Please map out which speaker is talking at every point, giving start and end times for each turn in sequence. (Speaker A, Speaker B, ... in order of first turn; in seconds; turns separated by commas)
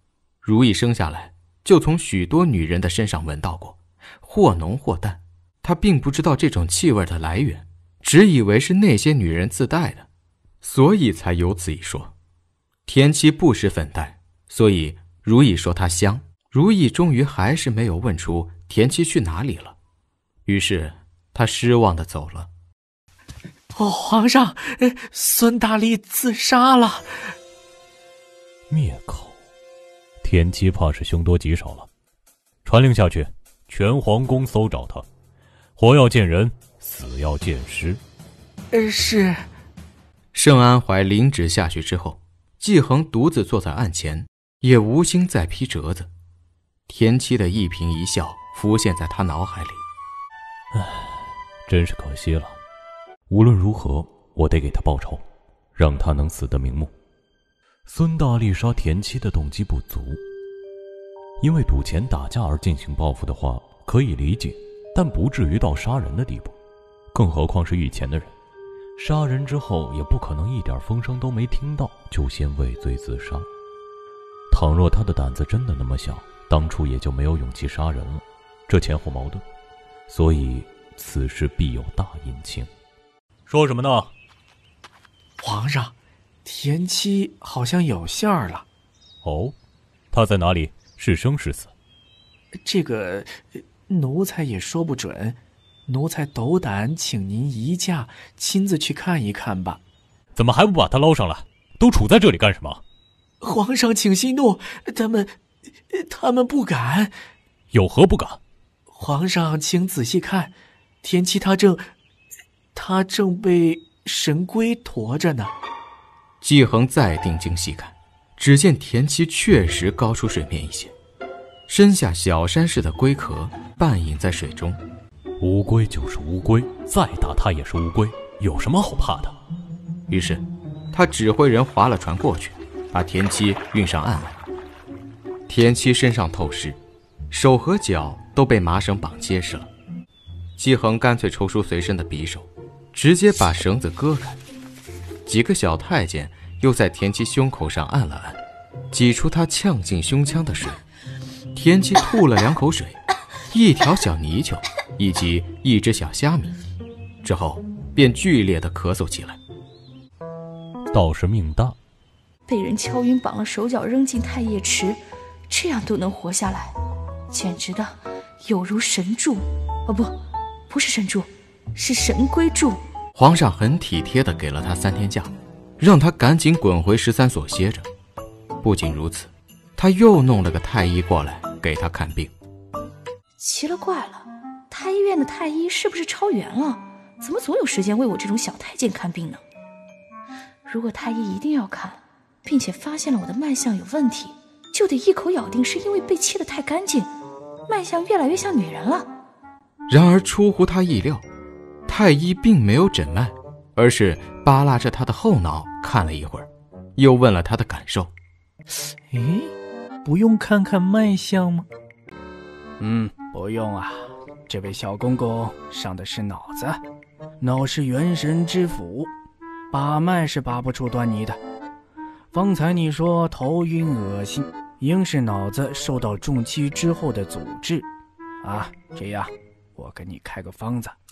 Speaker A: 0.4-10.1, Speaker A: 10.6-12.1, Speaker A: 12.8-19.8, Speaker A: 20.4-22.5, Speaker B: 23.7-27.3, Speaker C: 28.7-29.3, Speaker C: 30.2-31.9, Speaker C: 32.6-35.0, Speaker C: 35.8-38.0, Speaker B: 38.7-39.4, Speaker A: 40.3-46.1, Speaker A: 46.9-49.8, Speaker C: 50.7-52.5, Speaker C: 53.3-55.2, Speaker C: 55.8-56.9, Speaker C: 57.9-60.2, Speaker C: 61.4-66.5, Speaker C: 67.1-68.3, Speaker C: 69.0-73.5, Speaker C: 74.5-79.4, Speaker C: 80.1-82.7, Speaker C: 83.5-84.1, Speaker B: 85.4-88.6, Speaker C: 89.2-89.5, Speaker C: 90.1-91.7, Speaker B: 92.6-99.8, Speaker C: 100.3-102.8, Speaker B: 103.4-105.3, Speaker B: 105.9-107.1, Speaker C: 107.7-108.4, Speaker B: 108.9-111.8, Speaker B: 112.7-115.5, Speaker A: 116.4-120.9, Speaker A: 121.7-124.8, Speaker C: 125.4-129.3, Speaker A: 130.1-134.4, Speaker A: 135.5-136.8, Speaker A: 137.3-139.7, Speaker A: 140.6-144.4, Speaker A: 145.2-148.4, Speaker A: 148.9-150.8, Speaker A: 151.5-153.0, Speaker A: 153.5-156.6, Speaker A: 157.2-159.4, Speaker C: 160.9-161.8, Speaker D: 162.5-166.7, Speaker D: 167.3-170.1, Speaker D: 170.7-172.8, Speaker A: 173.1-177.9, Speaker A: 178.6-182.3, Speaker D: 183.4-189.4, Speaker D: 190.7-197.1, Speaker D: 197.7-199.1, Speaker A: 199.9-201.2, Speaker A: 201.9-208.1, Speaker B: 209.1-209.5, Speaker B: 210.0-211.7, Speaker E: 212.8-216.8, Speaker E: 217.4-219.1, Speaker E: 219.7-221.4, Speaker E: 222.3-227.8, Speaker E: 228.4-230.9